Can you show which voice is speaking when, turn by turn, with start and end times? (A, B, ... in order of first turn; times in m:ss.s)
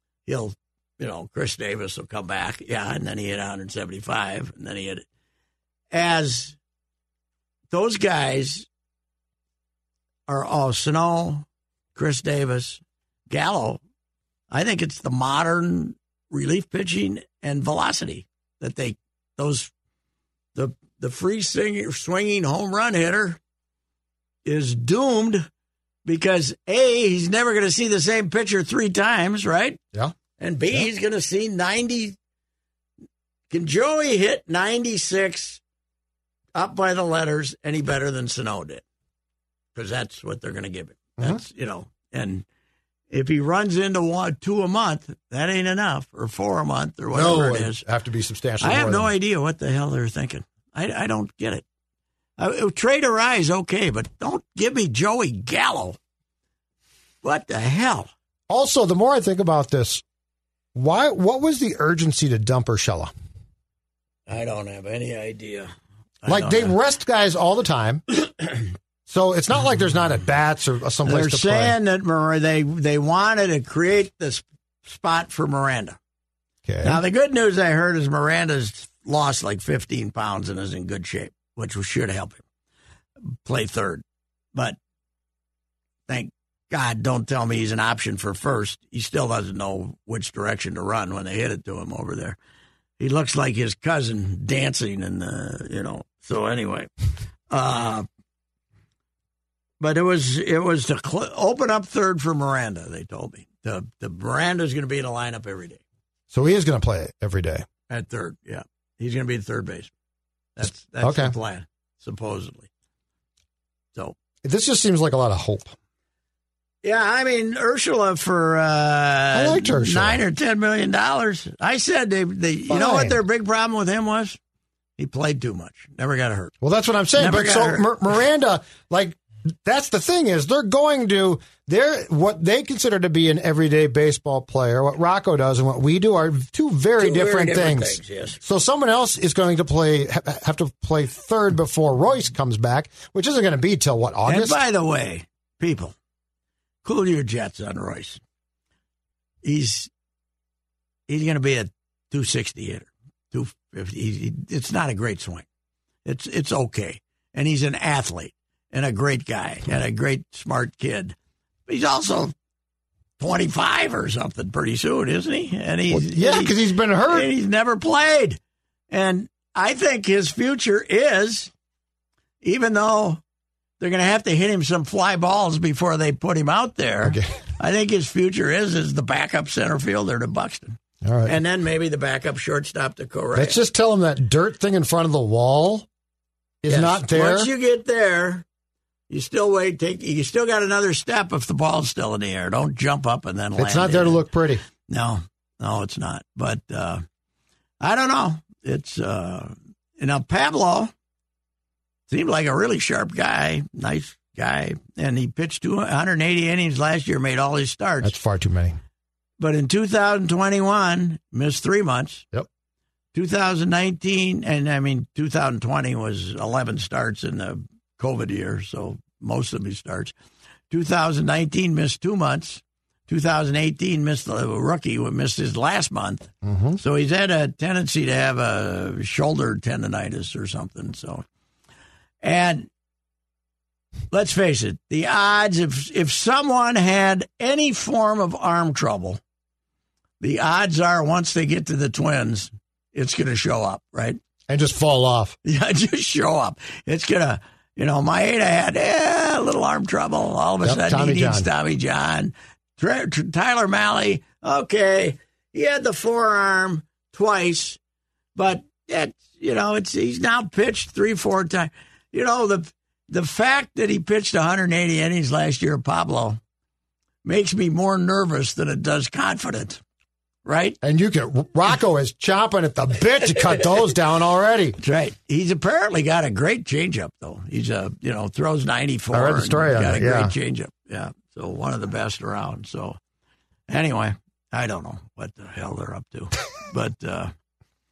0:00.3-0:05.0 A
0:05.9-0:06.6 A
0:07.7-0:08.7 A
0:10.3-0:13.8 A
0:14.5-0:19.7 A
0:20.6-0:23.4 A
0:24.4-0:25.4 A
0:26.0-0:29.8 A
0:30.4-0:32.2 A
0:33.5-0:35.6 A
0:36.6-0:38.8 A
0:39.8-0:42.4 A
0:43.1-0:47.8 A
0:47.1-0:49.1 B
0:48.6-0:51.6 A
0:52.4-0:56.0 A
0:57.2-0:58.1 A
0:58.5-1:00.0 B
1:00.8-1:03.1 B
1:04.3-1:05.7 A
1:06.2-1:06.8 A
1:06.3-1:08.0 B
1:09.1-1:11.8 B
1:11.1-1:16.0 A
1:16.7-1:17.0 B
1:16.8-1:22.4 A
1:23.3-1:24.0 A
1:26.1-1:32.4 A
1:33.0-1:36.9 A
1:37.5-1:38.1 A
1:39.8-1:45.8 A
1:46.3-1:47.6 B
1:47.9-1:49.9 A
1:50.6-1:52.7 A
1:51.0-1:51.3 B
1:54.4-1:55.7 B
1:56.8-2:04.4 A
1:59.3-2:00.2 B
2:02.7-2:03.2 B
2:05.0-2:06.5 A
2:06.6-2:24.6 B
2:07.2-2:07.9 A
2:17.0-2:18.4 A
2:24.3-2:26.0 A
2:26.8-2:28.2 A
2:29.4-2:29.9 A
2:31.1-2:35.4 A
2:36.0-2:41.2 A
2:41.7-2:42.3 A
2:43.2-2:46.6 A
2:45.9-2:47.3 B
2:47.1-2:48.4 A
2:48.9-2:51.5 A
2:52.4-2:53.2 A
2:53.8-3:03.6 A
2:57.0-2:57.3 B
3:01.0-3:01.4 B
3:03.4-3:05.9 B
3:06.6-3:07.5 B
3:06.7-3:08.4 A
3:09.1-3:14.2 A
3:13.6-3:14.6 B
3:14.9-3:17.0 A
3:17.8-3:20.9 A
3:22.1-3:28.2 A
3:28.0-3:28.8 B
3:29.4-3:32.3 A
3:33.1-3:40.1 A
3:40.7-3:51.2 A
3:46.4-3:46.8 B
3:52.2-3:52.7 A
3:54.1-3:59.2 A
4:00.2-4:04.2 A
4:04.5-4:05.4 B
4:05.4-4:17.8 A
4:10.6-4:11.5 B
4:18.4-4:26.4 A
4:27.2-4:29.8 A
4:30.4-4:30.8 A
4:30.8-4:34.8 B
4:34.8-4:43.0 A
4:39.1-4:40.3 B
4:43.7-4:47.3 A